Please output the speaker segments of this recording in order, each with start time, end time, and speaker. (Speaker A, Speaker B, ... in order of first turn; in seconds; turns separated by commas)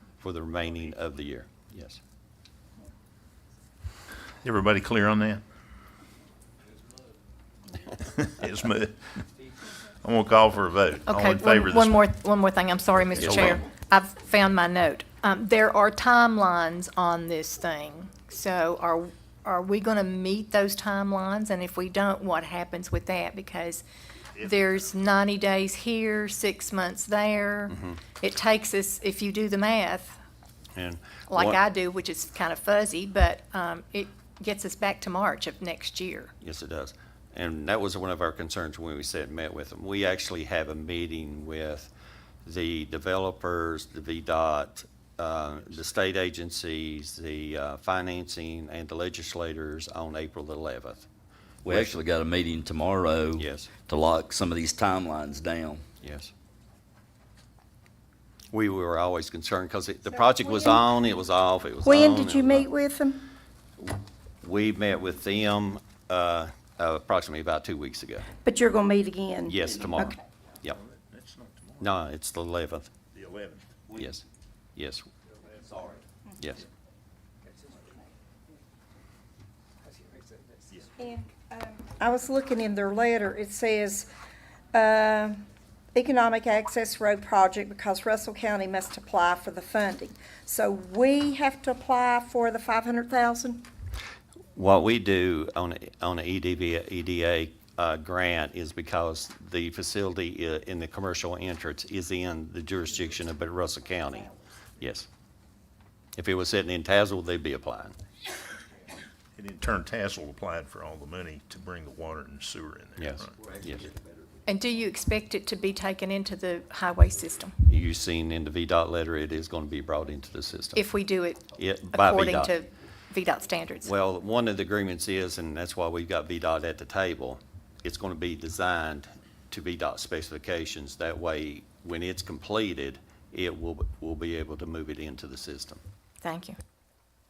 Speaker A: 0.2-2.0, Speaker B: 4.4-5.4, Speaker B: 8.0-9.1, Speaker B: 10.0-12.0, Speaker C: 11.1-23.9, Speaker B: 13.2-13.6, Speaker A: 13.2-13.6, Speaker B: 24.4-24.8, Speaker C: 24.4-30.2, Speaker A: 27.7-28.0, Speaker A: 30.8-31.6, Speaker C: 31.3-36.3, Speaker A: 36.4-41.9, Speaker A: 42.5-51.1, Speaker D: 51.6-55.8, Speaker A: 51.7-52.0, Speaker A: 53.4-53.7, Speaker A: 56.0-56.3, Speaker A: 58.5-62.7, Speaker E: 60.4-60.8, Speaker E: 61.8-63.2, Speaker A: 63.8-68.3, Speaker E: 68.4-70.2, Speaker A: 69.5-70.8, Speaker B: 70.7-71.9, Speaker A: 71.8-72.9, Speaker B: 73.1-73.7, Speaker A: 73.9-74.2, Speaker A: 74.8-75.1, Speaker A: 76.4-76.6, Speaker E: 81.0-84.1, Speaker E: 84.7-85.4, Speaker E: 85.9-93.7, Speaker A: 94.5-105.1, Speaker A: 106.2-108.0, Speaker B: 109.4-113.4, Speaker A: 113.0-113.9, Speaker C: 114.5-117.5, Speaker A: 117.7-120.9, Speaker C: 120.8-123.9, Speaker A: 121.5-122.5, Speaker A: 123.8-135.8, Speaker C: 136.2-136.6